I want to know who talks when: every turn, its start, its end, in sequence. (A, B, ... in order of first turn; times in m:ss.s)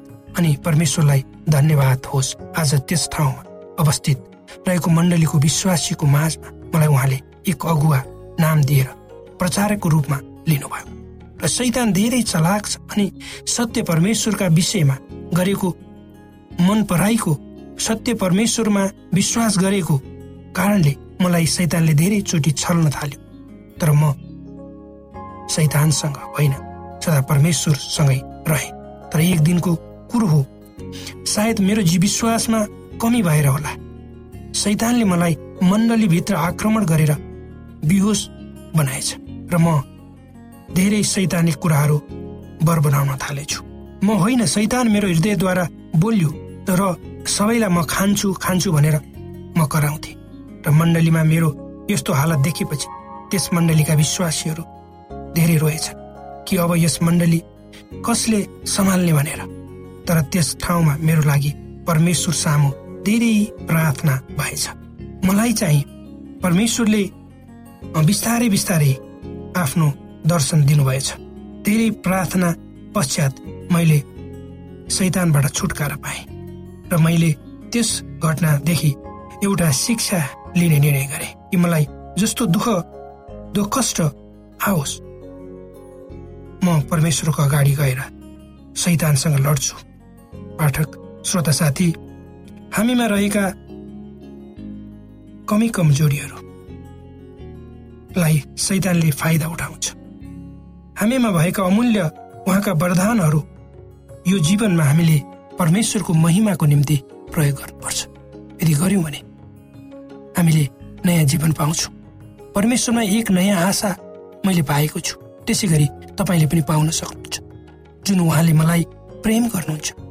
0:00.3-0:15.8 A
0:16.6-0:23.2 A
0:23.8-0:24.2 A
0:25.5-0:30.5 A
0:31.2-0:33.8 A
0:34.5-0:37.2 A
0:37.8-0:39.9 A
0:40.7-0:42.0 A
0:42.6-0:49.0 A
0:49.6-0:54.7 A
0:55.3-0:57.4 A
0:58.0-0:59.5 A
1:00.1-1:05.9 A
1:06.4-1:07.1 A
1:07.9-1:09.0 A
1:09.6-1:14.0 A
1:14.9-1:16.3 A
1:16.9-1:22.9 A
1:23.5-1:25.0 A
1:26.6-1:28.1 A
1:28.8-1:29.8 A
1:30.6-1:32.0 A
1:32.7-1:33.6 A
1:35.5-1:36.4 A
1:38.2-1:40.0 A
1:41.0-1:43.5 A
1:44.2-1:49.2 A
1:50.4-1:51.9 A
1:52.5-1:57.4 A
1:58.0-2:00.0 A